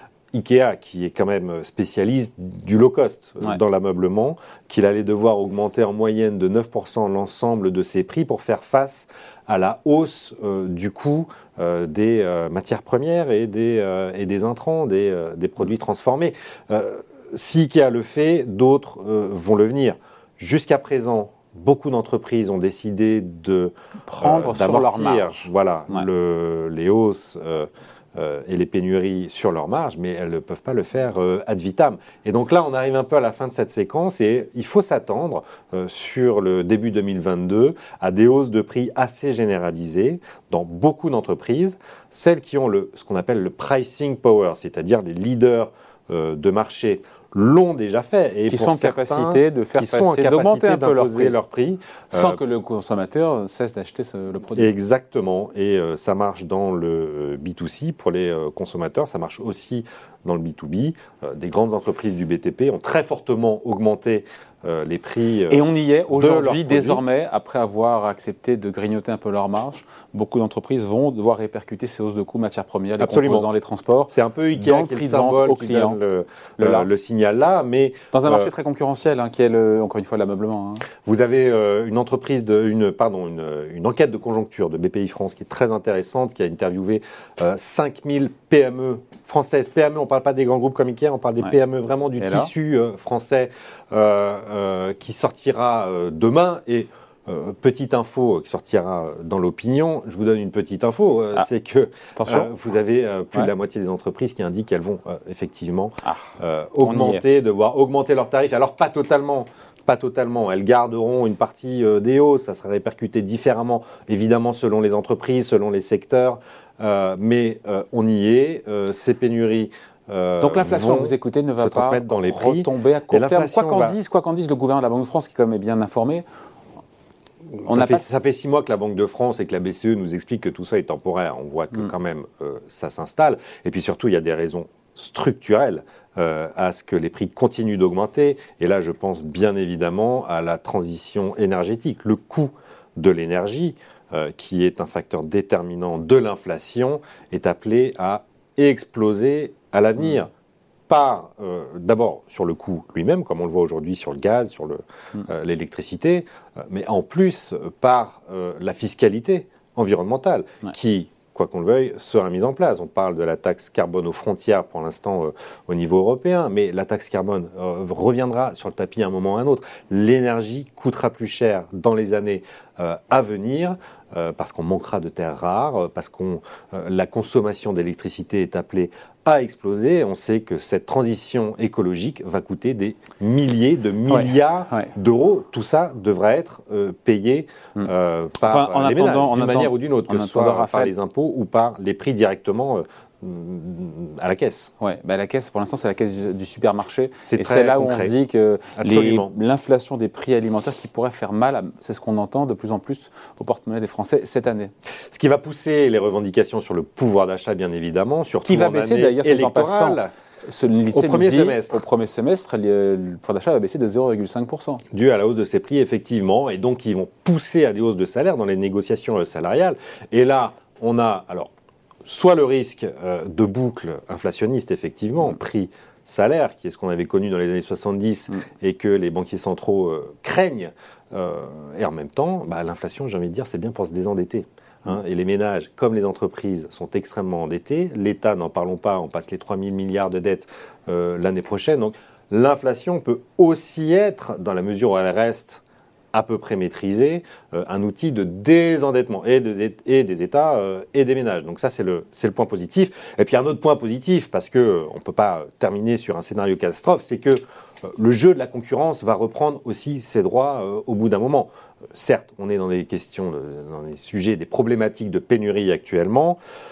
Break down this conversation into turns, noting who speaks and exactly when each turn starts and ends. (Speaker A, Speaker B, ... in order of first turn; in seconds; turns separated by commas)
Speaker A: 0.3-52.4, Speaker B: 24.1-26.1, Speaker B: 48.5-51.4, Speaker B: 52.1-54.7, Speaker A: 54.5-67.0, Speaker B: 65.5-76.0, Speaker A: 73.0-73.5, Speaker A: 74.1-78.5, Speaker B: 76.6-76.9, Speaker B: 78.1-80.9, Speaker A: 81.0-124.0, Speaker B: 92.2-92.5, Speaker B: 102.2-102.5, Speaker B: 106.0-107.2, Speaker B: 120.4-126.2, Speaker A: 127.6-150.3, Speaker B: 127.6-128.2, Speaker A: 150.9-194.7, Speaker B: 184.1-184.9, Speaker B: 188.4-190.9, Speaker B: 194.8-204.7, Speaker A: 197.2-198.2, Speaker A: 198.8-199.3, Speaker A: 205.1-210.1, Speaker B: 208.4-214.8, Speaker A: 210.9-211.8, Speaker A: 214.9-221.5, Speaker A: 222.1-245.6, Speaker A: 246.1-266.4